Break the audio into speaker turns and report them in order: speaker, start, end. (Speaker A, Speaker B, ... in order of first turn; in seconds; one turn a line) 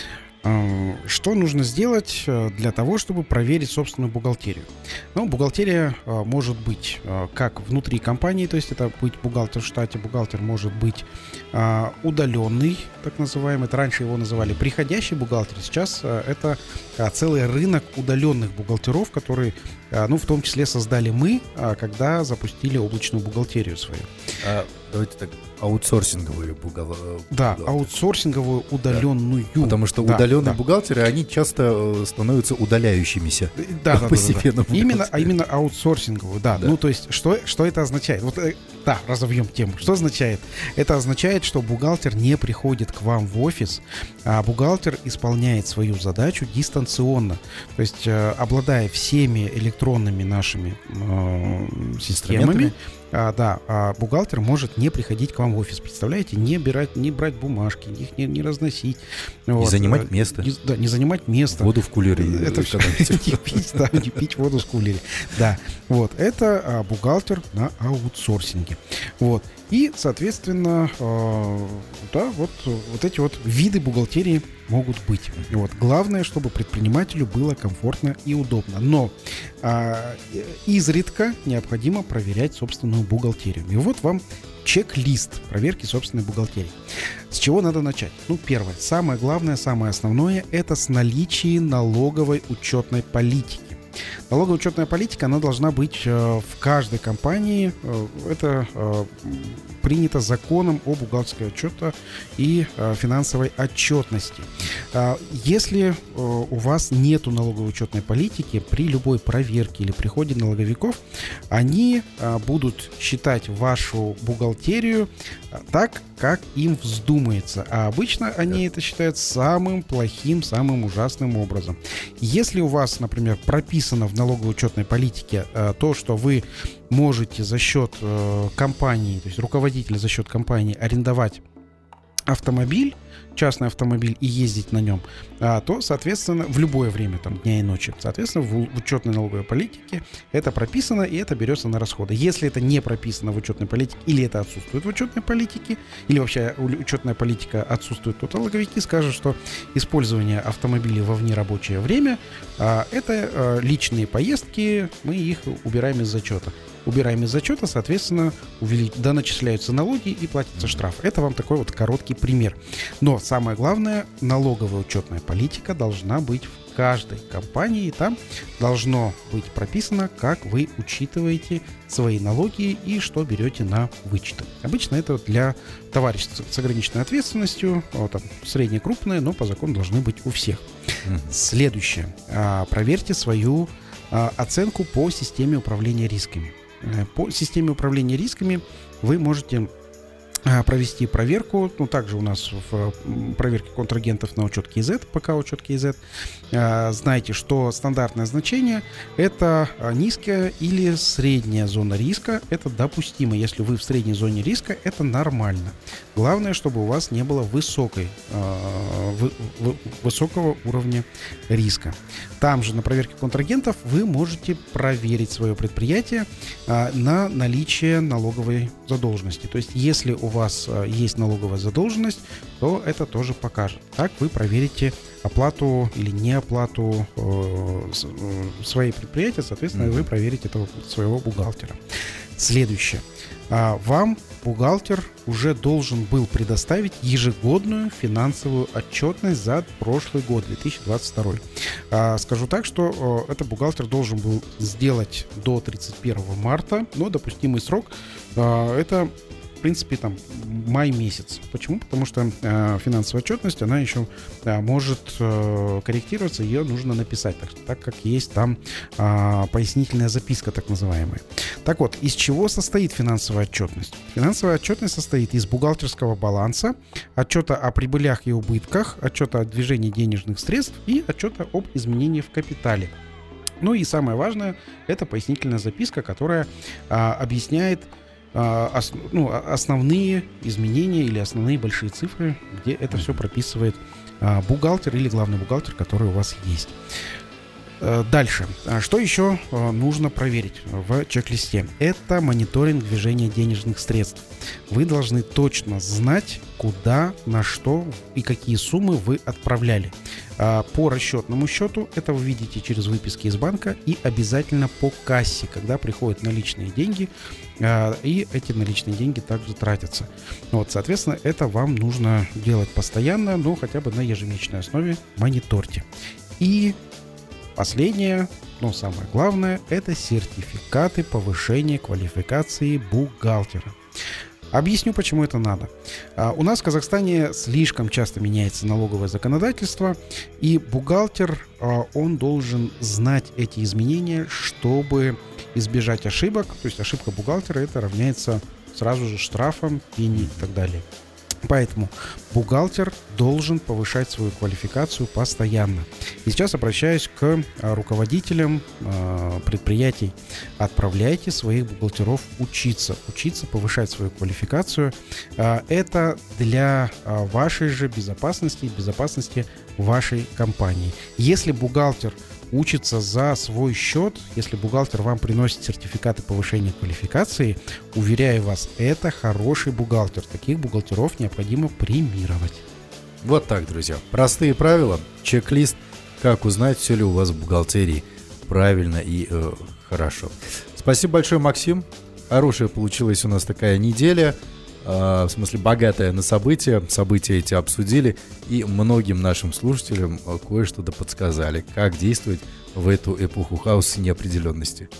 Speaker A: 0.4-24.1
Speaker B: 24.4-27.9
Speaker A: 27.3-30.6
Speaker B: 29.6-35.3
Speaker A: 33.6-86.8
Speaker B: 52.1-52.7
Speaker B: 59.6-60.5
Speaker B: 61.5-63.8
Speaker A: 87.3-111.0
Speaker A: 111.5-131.4
Speaker A: 132.3-180.7
Speaker B: 181.1-181.3
Speaker A: 181.3-189.7
Speaker A: 190.5-196.0
Speaker A: 196.5-231.8
Speaker B: 229.7-230.1
Speaker A: 232.4-272.9
Speaker A: 273.6-286.8
Speaker B: 282.9-283.2
Speaker A: 287.8-315.9
Speaker A: 316.4-316.8
Speaker A: 317.6-323.8
Speaker A: 324.5-340.9
Speaker B: 340.1-340.5
Speaker A: 341.5-372.6
Speaker B: 373.2-394.9